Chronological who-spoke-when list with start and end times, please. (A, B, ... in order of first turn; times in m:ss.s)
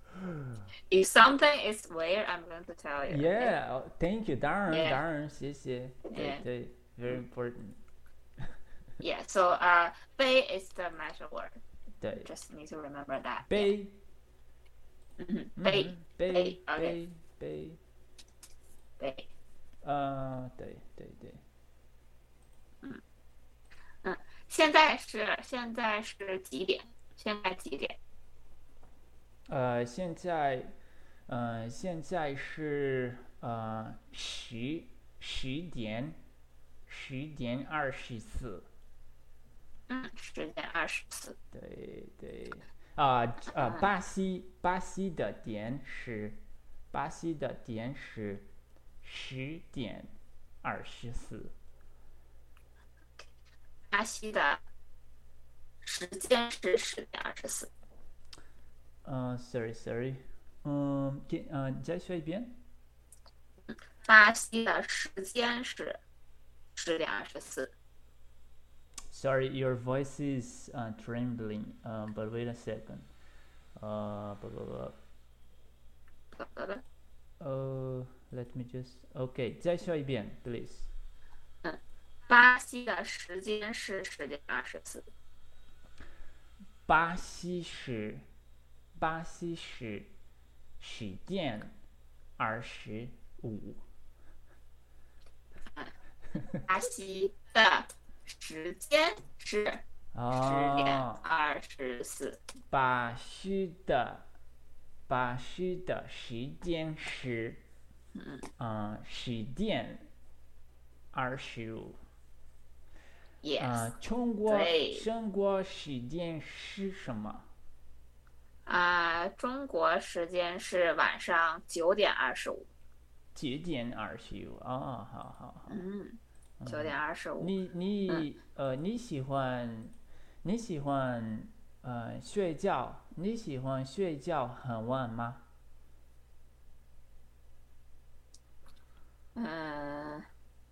0:00.9-0:03.5 A
0:03.1-0:07.8 B
0:04.7-0:05.0 A
0:06.1-0:06.4 A
0:09.0-0:11.6 A
0:12.0-0:12.3 B
0:12.1-0:13.7 A
0:13.5-0:14.0 B
0:15.2-0:17.0 A
0:15.6-0:17.8 B
0:19.0-0:19.3 A
0:19.8-0:21.4 B
0:24.0-0:28.0 A
0:29.5-0:30.7 B
0:31.3-0:36.2 B
0:36.9-0:38.7 B
0:39.9-0:41.4 A
0:41.5-0:48.5 B
0:43.6-0:43.9 A
0:49.0-0:51.5 B
0:53.9-0:54.6 A
0:55.8-0:57.7 A
0:59.0-1:02.6 B
1:04.0-1:06.0 A
1:06.8-1:07.7 A
1:09.1-1:13.1 B
1:13.8-1:15.0 B
1:16.3-1:16.8 A
1:17.4-1:20.9 B
1:21.6-1:25.1 A
1:26.9-1:28.2 B
1:29.0-1:30.1 B
1:30.8-1:31.7 B
1:32.4-1:33.8 B
1:36.6-1:39.8 A
1:40.1-1:41.2 B
1:40.4-1:42.4 A
1:42.7-1:44.3 B
1:45.1-1:47.6 B
1:48.2-1:48.4 A
1:48.6-1:50.1 B
1:51.1-1:52.0 B
1:53.4-1:53.9 A
1:53.6-1:57.5 B
1:54.5-1:55.1 A
1:58.7-2:02.7 A
2:03.3-2:05.8 B
2:05.7-2:07.5 A
2:06.6-2:15.4 B
2:19.4-2:20.3 A